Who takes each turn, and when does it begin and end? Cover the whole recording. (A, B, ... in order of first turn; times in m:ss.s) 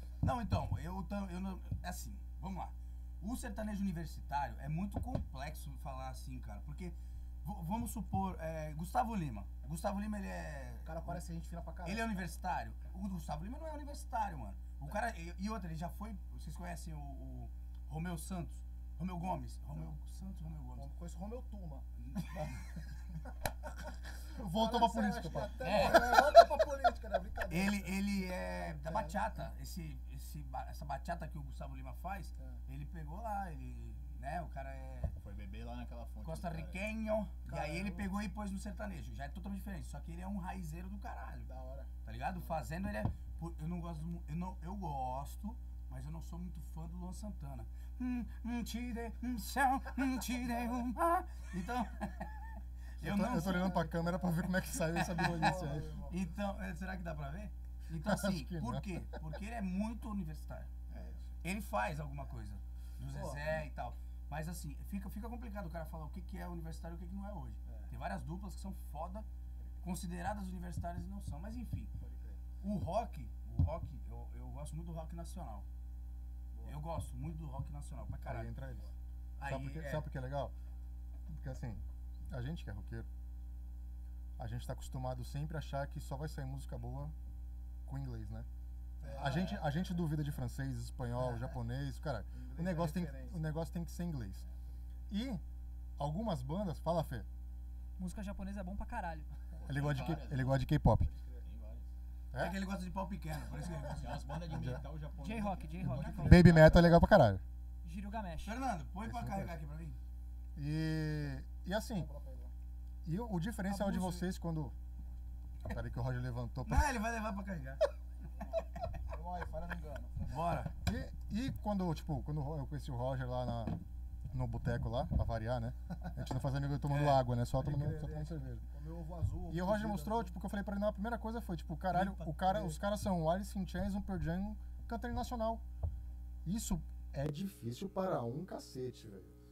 0:00.2-0:11.2 A
0:10.8-0:12.3 B
0:11.8-0:20.9 A
0:20.8-0:22.6 B
0:22.0-0:22.6 A
0:23.7-0:27.9 B
0:24.4-0:26.1 C
0:25.6-0:26.2 A
0:27.5-0:35.2 A
0:28.8-0:29.2 B
0:35.2-0:36.8 D
0:36.2-0:41.5 A
0:37.5-0:38.1 B
0:41.5-0:42.6 B
0:42.0-0:52.4 A
0:53.0-0:53.8 A
0:53.0-0:55.9 C
0:53.2-0:54.3 B
0:54.9-0:55.6 A
0:54.9-0:56.2 B
0:56.1-1:00.7 A
0:58.0-0:59.2 C
1:00.9-1:01.3 B
1:01.4-1:09.3 A
1:03.1-1:03.6 B
1:07.7-1:07.9 B
1:09.8-1:11.9 A
1:12.0-1:12.4 B
1:12.6-1:15.7 A
1:16.5-1:16.8 B
1:16.6-1:18.5 A
1:18.2-1:18.9 C
1:19.4-1:20.1 A
1:19.4-1:20.5 C
1:21.3-1:23.1 C
1:24.4-1:27.1 C
1:27.9-1:28.5 C
1:29.0-1:30.0 B
1:29.0-1:34.4 C
1:32.3-1:33.4 B
1:35.1-1:35.4 C
1:36.0-1:37.3 C
1:38.0-1:39.3 E
1:39.6-1:40.7 D
1:39.7-1:41.1 C
1:41.0-1:41.4 B
1:41.4-1:41.9 D
1:42.3-1:42.6 C
1:42.4-1:44.2 A
1:44.0-1:47.0 D
1:44.5-1:44.8 C
1:45.2-1:46.7 E
1:46.0-1:47.4 C
1:47.8-1:48.6 E
1:48.4-1:50.0 A
1:49.0-1:49.6 C
1:50.6-1:52.1 C
1:51.9-1:52.5 B
1:53.0-1:54.8 C
1:53.9-1:54.2 E
1:55.7-1:56.9 C
1:56.7-1:57.8 A
1:58.4-2:00.5 B
2:00.3-2:00.7 A
2:00.8-2:03.8 C
2:04.3-2:08.6 C
2:06.9-2:07.2 A
2:07.6-2:10.4 B
2:09.5-2:15.6 C
2:11.9-2:12.3 A
2:12.5-2:12.8 B
2:16.4-2:19.3 C